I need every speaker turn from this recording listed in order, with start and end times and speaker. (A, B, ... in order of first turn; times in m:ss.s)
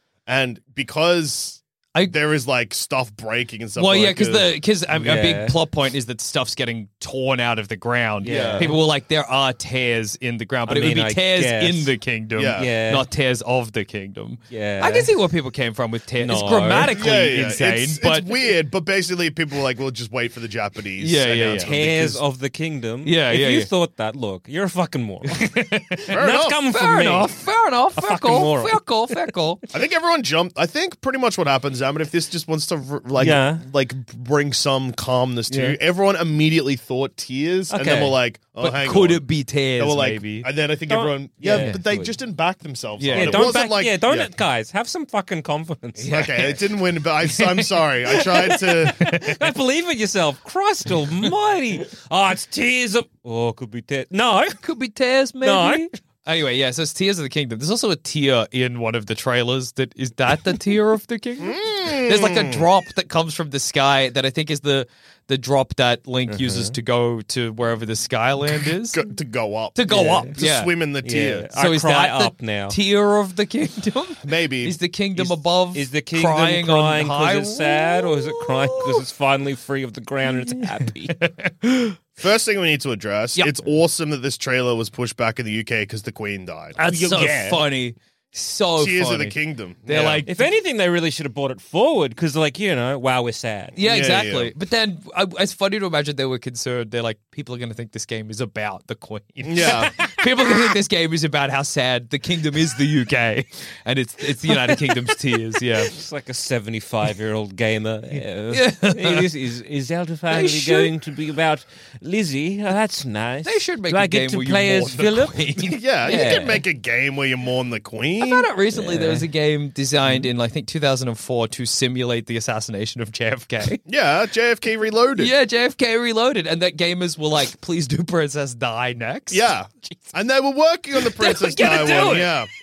0:00.3-0:04.5 A
0:03.8-0:18.3 B
0:04.9-0:05.6 C
0:08.2-0:08.8 C
0:08.2-0:08.7 A
0:10.7-0:11.9 C
0:12.4-0:12.7 A
0:12.6-0:13.1 C
0:14.5-0:15.1 C
0:16.2-0:17.0 C
0:16.9-0:22.2 A
0:21.0-0:22.1 B
0:21.6-0:27.3 C
0:23.0-0:23.7 B
0:25.3-0:26.1 B
0:26.1-0:26.6 A
0:26.6-0:29.6 B
0:27.9-0:29.3 C
0:29.7-0:39.2 A
0:33.2-0:33.6 C
0:35.5-0:35.7 B
0:37.7-0:38.1 C
0:38.6-0:40.5 B
0:39.8-0:44.3 A
0:40.9-0:42.1 C
0:41.4-0:41.8 B
0:43.0-0:43.5 B
0:43.1-0:46.1 C
0:46.0-0:46.6 B
0:46.1-0:49.1 A
0:48.4-0:49.4 B
0:48.8-0:54.6 C
0:54.5-1:09.1 B
0:55.4-0:55.9 C
1:01.4-1:02.6 A
1:06.3-1:06.8 C
1:08.9-1:11.5 A
1:09.7-1:10.7 B
1:09.9-1:10.3 C
1:11.0-1:12.8 C
1:11.5-1:19.0 B
1:14.2-1:14.8 A
1:15.1-1:21.2 C
1:20.4-1:22.0 B
1:22.2-1:26.8 A
1:26.8-1:29.3 B
1:26.9-1:27.6 C
1:28.8-1:30.2 A
1:29.8-1:30.4 B
1:30.2-1:33.8 C
1:33.8-1:46.0 B
1:33.8-1:34.5 A
1:39.4-1:39.9 A
1:39.8-1:40.5 C
1:45.8-1:56.6 C
1:48.5-1:49.2 B
1:50.3-1:50.9 B
1:53.4-1:56.5 B
1:55.6-1:58.5 A
1:58.2-2:03.8 B
1:58.7-1:59.2 C
2:03.8-2:05.3 A
2:05.2-2:10.0 B
2:09.3-2:12.5 A
2:11.1-2:12.4 B